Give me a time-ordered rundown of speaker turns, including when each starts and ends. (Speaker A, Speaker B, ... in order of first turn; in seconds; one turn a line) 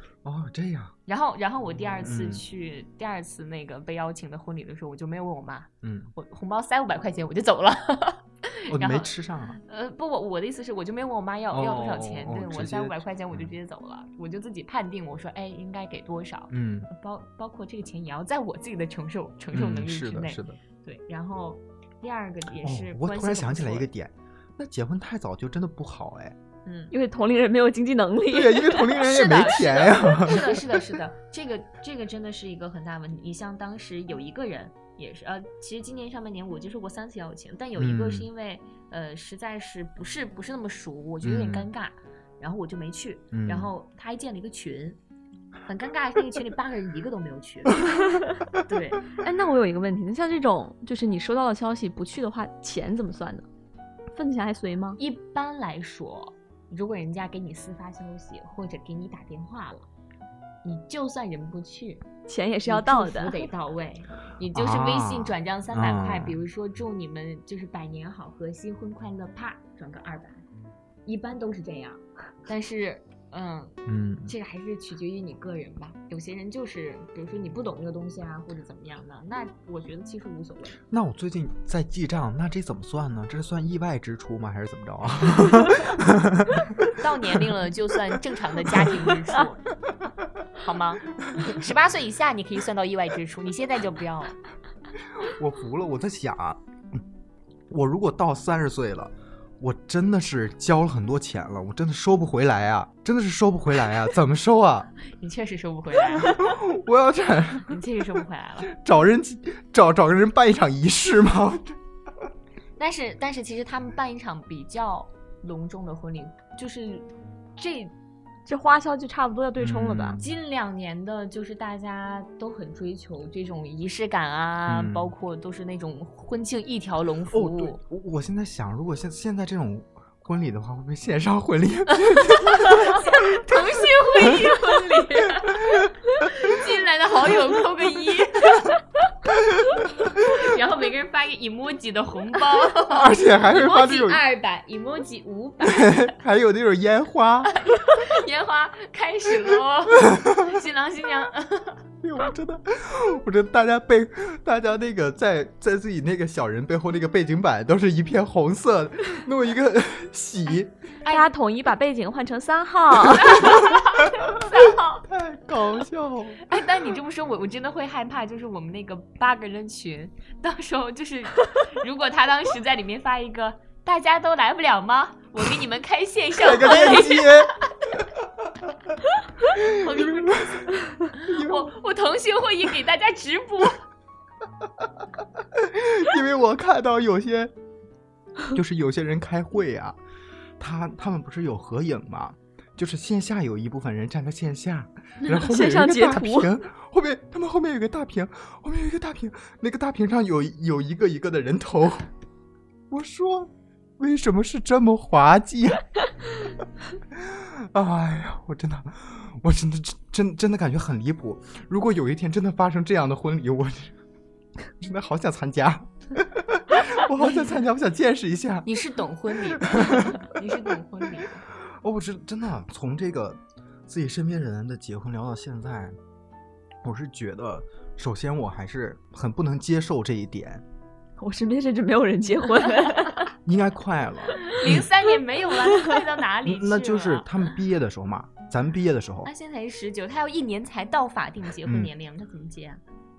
Speaker A: 0.2-0.9
Speaker B: 1.1-23.9
Speaker A: 2.0-2.4
Speaker A: 5.8-6.1
Speaker A: 8.7-9.6
Speaker A: 11.5-13.5
Speaker A: 16.5-16.9
Speaker A: 19.5-20.6
Speaker A: 22.6-26.4
Speaker B: 26.6-26.9
Speaker C: 26.9-29.1
Speaker A: 28.3-30.8
Speaker B: 28.9-45.0
Speaker A: 37.8-38.3
Speaker A: 41.2-41.7
Speaker A: 43.3-43.7
Speaker B: 45.7-49.1
Speaker C: 49.2-53.5
Speaker C: 54.1-55.0
Speaker B: 55.0-59.9
Speaker B: 60.6-62.1
Speaker C: 62.3-63.5
Speaker B: 62.6-70.4
Speaker A: 64.5-66.4
Speaker B: 71.1-80.8
Speaker A: 73.9-74.3
Speaker A: 80.9-87.4
Speaker B: 86.9-89.7
Speaker B: 90.6-94.3
Speaker A: 95.2-96.6
Speaker A: 97.7-104.9
Speaker B: 105.0-106.6
Speaker A: 106.2-107.8
Speaker B: 107.7-108.7
Speaker A: 108.7-111.8
Speaker B: 112.8-117.9
Speaker C: 118.5-120.2
Speaker A: 119.6-120.3
Speaker B: 120.2-127.8
Speaker A: 124.7-125.1
Speaker A: 127.3-133.2
Speaker B: 132.3-138.8
Speaker A: 134.2-134.6
Speaker A: 135.4-135.9
Speaker B: 140.1-146.2
Speaker A: 142.9-144.2
Speaker A: 145.6-147.5
Speaker B: 147.7-151.8
Speaker A: 152.0-160.7
Speaker B: 161.0-161.3
Speaker C: 161.1-163.6
Speaker B: 163.2-165.1
Speaker A: 164.2-164.5
Speaker A: 165.1-166.4
Speaker B: 166.5-178.0
Speaker A: 176.3-177.5
Speaker A: 179.5-181.8
Speaker B: 179.5-183.8
Speaker A: 185.5-187.5
Speaker A: 188.5-190.0
Speaker A: 190.6-202.1
Speaker C: 195.3-196.5
Speaker A: 202.9-205.9
Speaker A: 207.1-214.0
Speaker A: 214.8-218.7
Speaker B: 217.2-217.5
Speaker B: 218.7-221.4
Speaker A: 219.5-220.3
Speaker A: 221.5-226.0
Speaker A: 226.8-230.6
Speaker C: 231.2-233.3
Speaker A: 233.4-234.9
Speaker B: 234.5-237.3
Speaker A: 236.4-239.3
Speaker B: 239.2-242.8
Speaker A: 241.7-241.9